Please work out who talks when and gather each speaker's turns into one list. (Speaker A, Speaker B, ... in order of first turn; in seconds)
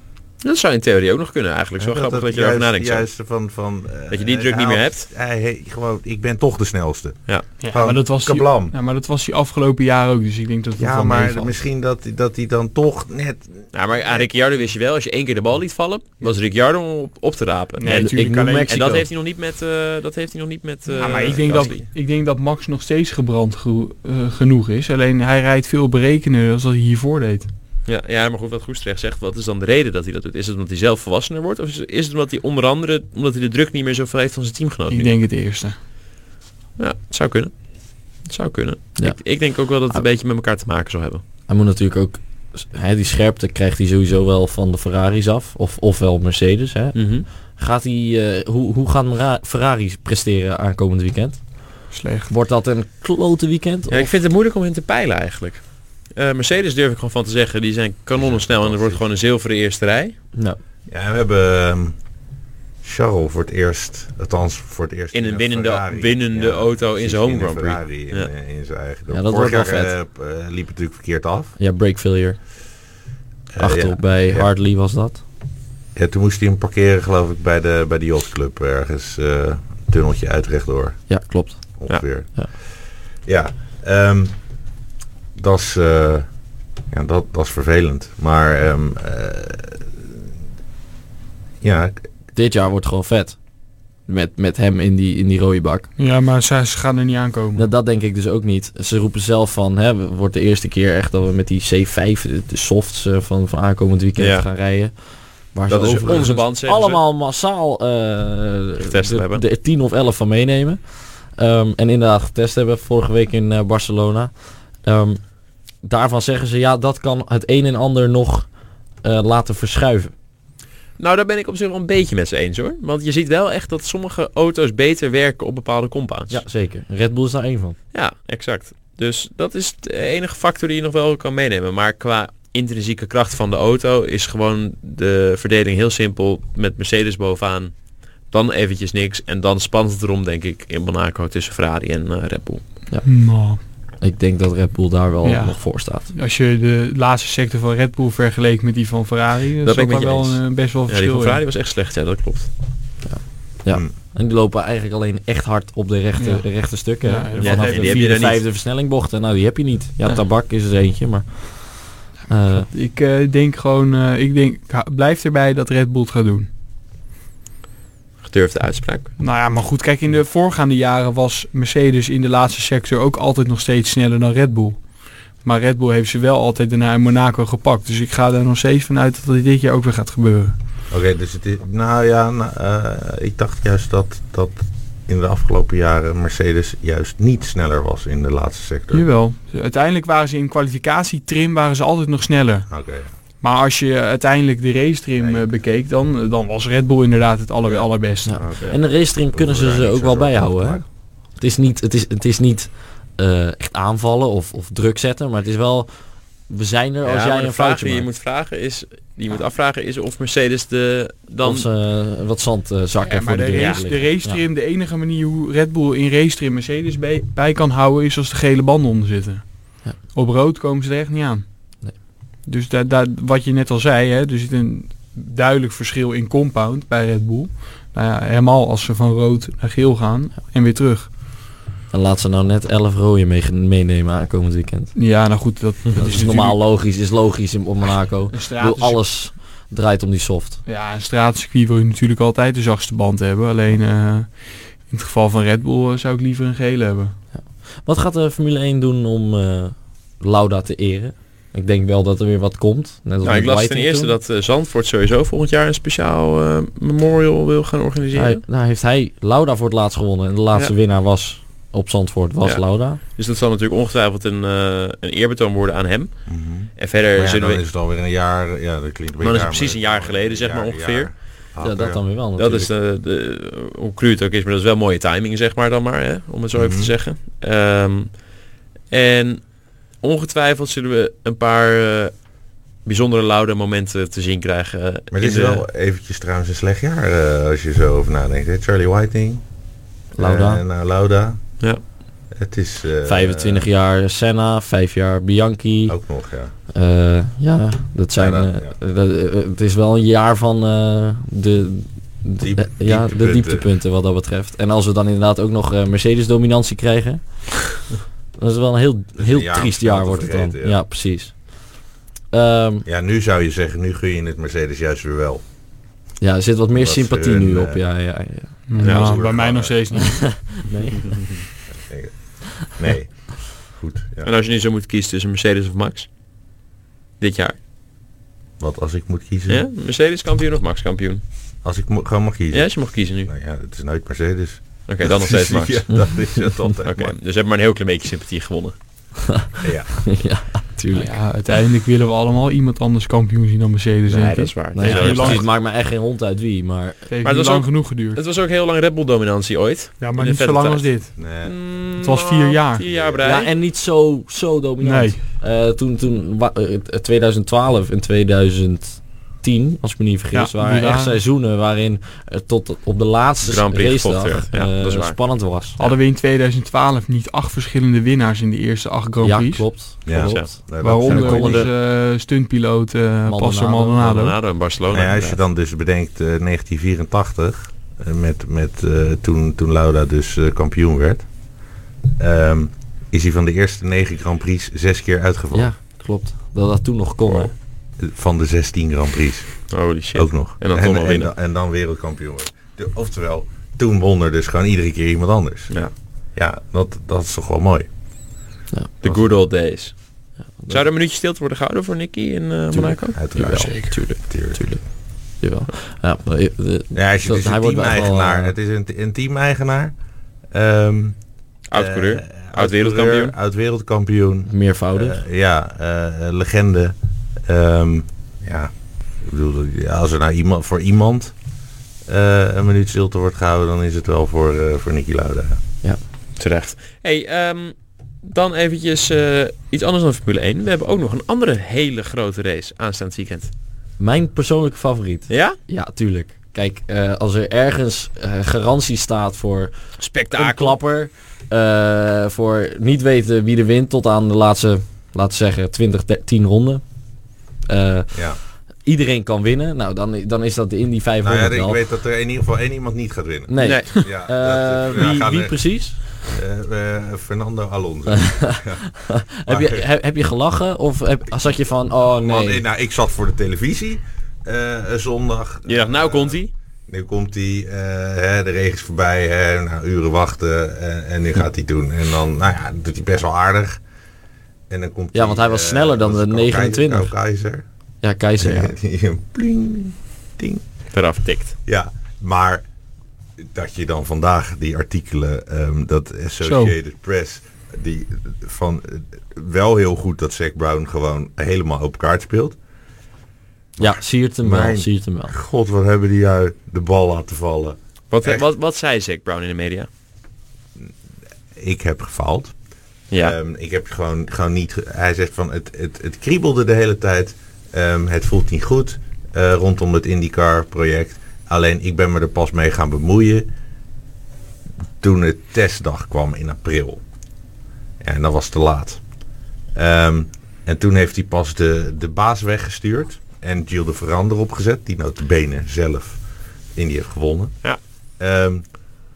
Speaker A: 0.4-3.0, 4.1-5.1, 13.7-21.8, 27.9-35.1, 36.8-37.5, 38.2-41.2, 46.9-47.2, 53.9-60.1, 65.1-68.3, 104.2-104.5, 105.7-107.0, 108.8-109.4, 121.0-126.4, 127.9-137.7, 138.3-142.7, 149.6-152.5, 157.4-158.4, 168.2-169.1, 207.0-211.7, 213.5-213.8, 253.2-258.4, 262.4-266.1, 266.8-267.6, 269.2-271.1, 272.4-278.2, 278.9-279.4, 280.0-282.1, 282.8-285.6, 318.8-319.1, 324.2-326.1, 327.2-327.6, 329.5-331.2, 332.5-333.3, 334.9-335.9, 336.8-338.8, 344.1-345.5, 347.2-353.5, 363.4-365.2, 370.1-370.5, 374.0-375.4, 389.7-391.3, 399.0-400.0, 400.7-403.2, 411.7-413.3, 426.4-433.5, 435.3-435.6, 440.0-440.8, 453.6-453.9, 465.7-466.5, 480.9-481.5, 498.1-499.9
Speaker B: 1.8-8.7, 10.8-14.3, 58.1-59.0, 60.9-62.0, 62.8-71.5, 73.5-74.5, 75.9-81.0, 81.8-84.4, 85.3-86.3, 86.9-90.3, 91.6-92.1, 180.9-189.1, 192.7-193.1, 195.2-195.5, 198.4-200.8, 266.3-272.0, 276.5-276.9, 285.1-289.4, 290.1-291.4, 292.3-293.7, 295.9-296.5, 298.2-298.7, 302.4-303.6, 309.1-310.8, 312.9-315.4, 316.7-317.8, 318.8-319.8, 321.8-324.3, 328.6-329.6, 331.6-337.1, 339.6-340.0, 351.2-351.6, 352.9-353.3, 370.0-371.7, 374.9-381.3, 382.2-385.7, 388.0-395.8, 396.3-397.9, 403.1-404.6, 406.9-409.9, 410.5-411.1, 411.7-421.3, 422.1-425.6, 448.1-448.4, 451.2-455.6, 456.2-458.9, 459.5-459.9, 462.0-473.8, 474.7-477.6, 478.4-480.6, 481.6-482.6, 483.4-492.6, 493.8-498.4, 501.5-502.5, 503.1-513.5, 515.0-517.0, 518.0-519.0, 519.8-526.2, 526.8-527.5, 528.2-528.6
Speaker C: 7.6-11.5, 17.8-18.7, 20.9-27.5, 34.9-35.8, 51.9-52.3, 96.0-97.7, 143.0-143.6, 145.2-151.4, 156.2-156.5, 157.0-158.2, 162.6-166.5, 169.2-174.9, 175.4-180.5, 188.9-192.7, 193.4-198.5, 213.1-221.4, 222.4-231.1, 234.9-236.6, 238.3-239.0, 240.7-247.1, 318.7-320.4, 340.9-345.5, 347.1-348.2, 350.0-351.1, 352.0-352.8, 354.8-355.2, 360.3-361.2, 365.8-369.6, 370.8-374.4, 486.4-486.8
Speaker D: 17.9-19.1, 41.5-54.1, 60.3-60.6, 69.1-69.9, 71.6-72.4, 73.6-75.2, 81.1-81.8, 92.3-93.4, 94.0-95.9, 97.5-115.2, 115.8-118.5, 119.0-120.1, 126.3-127.8, 144.0-146.1, 153.0-162.7, 198.2-205.9, 206.5-208.1, 211.4-214.4, 231.9-234.9, 235.9-240.6, 247.3-254.2, 258.1-263.0, 271.6-272.7, 290.2-290.6, 293.0-296.0, 296.7-307.7, 308.4-311.8, 312.3-312.9, 316.2-318.6, 320.0-321.2, 339.3-341.1, 344.7-347.0, 353.2-365.8, 369.2-371.7, 373.2-374.0, 385.5-387.5, 400.5-400.8, 402.7-404.8, 405.4-408.5, 414.5-415.2, 434.0-439.7, 440.3-446.8, 447.7-451.8, 453.5-456.0, 458.1-462.6, 475.1-477.1, 478.0-478.7, 493.8-495.3